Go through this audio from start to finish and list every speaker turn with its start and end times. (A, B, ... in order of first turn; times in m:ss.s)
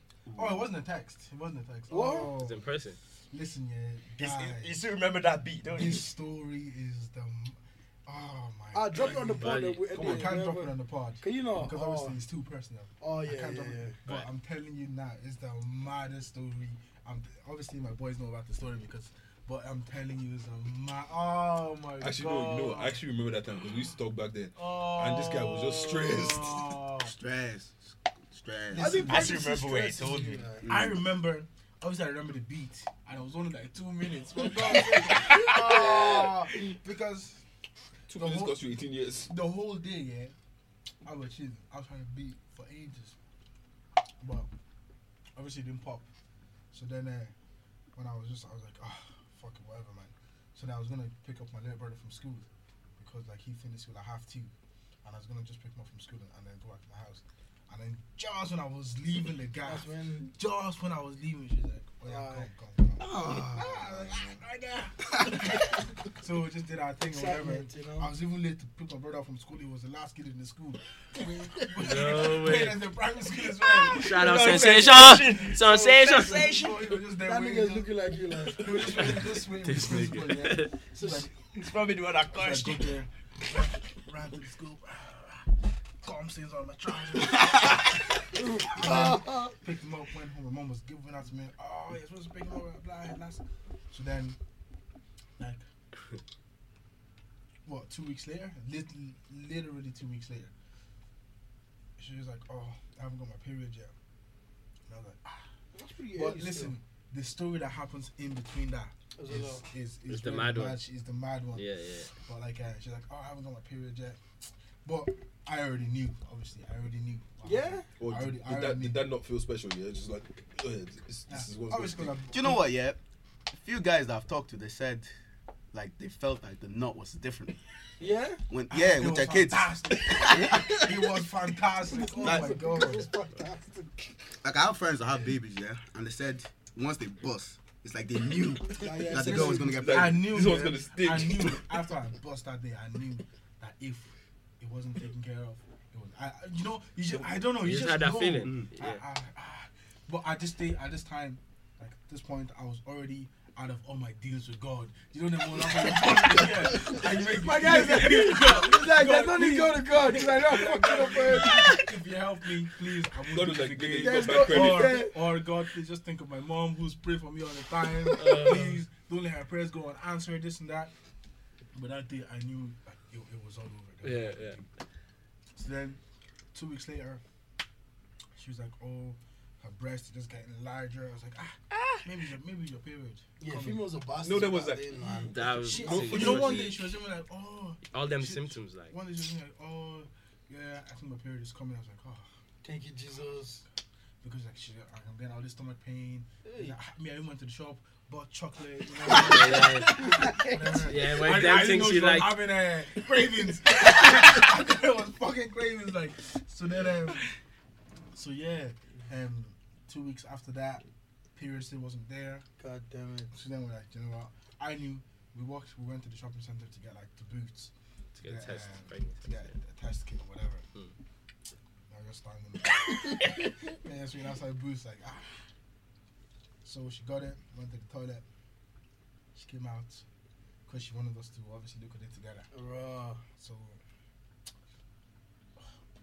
0:00.3-0:00.7 A
0:00.3-0:02.7 B
0:01.9-0:02.3 C
0:02.3-0:03.0 D
0:03.3-0:04.8 B
0:04.2-0:06.1 E
0:05.7-0:23.0 B
0:08.7-0:12.2 C
0:09.2-0:09.9 D
0:09.9-0:10.3 F
0:13.0-0:14.0 C
0:22.0-0:26.8 F
0:24.6-0:27.1 B
0:27.0-0:29.1 A
0:28.7-0:37.4 B
0:28.8-0:30.6 C
0:29.0-0:30.5 E
0:30.6-0:31.0 A
0:34.4-0:36.3 C
0:35.3-0:35.8 E
0:38.1-0:39.3 F
0:38.1-0:40.3 B
0:41.0-0:43.1 B
0:44.2-0:44.5 B
0:45.4-0:46.0 B
0:46.7-0:47.3 B
0:47.9-0:54.5 B
0:55.0-1:21.3 B
0:59.6-1:00.3 C
1:02.0-1:02.5 C
1:03.0-1:04.4 A
1:05.2-1:05.4 A
1:07.1-1:08.1 C
1:11.8-1:12.9 D
1:13.8-1:17.0 E
1:13.9-1:16.5 D
1:17.2-1:18.8 C
1:18.9-1:20.7 D
1:20.9-1:21.3 C
1:21.5-1:23.0 E
1:22.3-1:34.4 B
1:28.3-1:29.5 C
1:35.4-1:35.6 B
1:37.6-1:40.5 B
1:42.0-1:43.9 B
1:44.9-1:45.4 B
1:45.7-1:46.8 C
1:46.1-1:54.2 B
1:49.2-1:49.6 C
1:50.1-1:50.8 D
1:51.5-1:52.1 D
1:54.8-1:59.0 B
1:57.4-1:57.8 C
1:58.0-2:02.2 F
2:01.3-2:02.7 B
2:02.3-2:03.0 A
2:03.5-2:05.1 A
2:05.7-2:07.6 A
2:08.0-2:08.4 C
2:08.5-2:10.8 A
2:08.7-2:13.2 B
2:11.8-2:14.1 C
2:12.2-2:12.6 A
2:14.4-2:20.2 A
2:18.8-2:19.8 C
2:19.1-2:50.9 B
2:19.6-2:21.7 F
2:27.6-2:29.0 D
2:37.1-2:41.8 C
2:43.3-2:45.1 F
2:44.0-2:45.2 C
2:48.1-2:48.8 D
2:51.7-2:54.6 B
2:54.0-2:54.6 D
2:55.5-2:56.0 B
2:56.5-2:57.2 B
2:58.4-3:04.0 B
3:01.7-3:02.0 D
3:03.4-3:05.3 C
3:04.2-3:06.8 F
3:05.2-3:12.2 B
3:05.3-3:06.9 D
3:07.9-3:08.9 D
3:12.6-3:13.6 C
3:14.2-3:27.3 B
3:16.4-3:16.7 C
3:19.0-3:22.4 D
3:19.8-3:20.5 C
3:28.1-3:30.8 B
3:31.3-3:32.4 B
3:32.6-3:33.3 C
3:33.3-3:40.6 B
3:38.1-3:39.5 D
3:41.9-3:45.4 B
3:46.6-3:48.2 B
3:49.3-3:50.0 B
3:50.7-3:52.5 B
3:52.5-3:53.2 C
3:53.4-3:53.8 B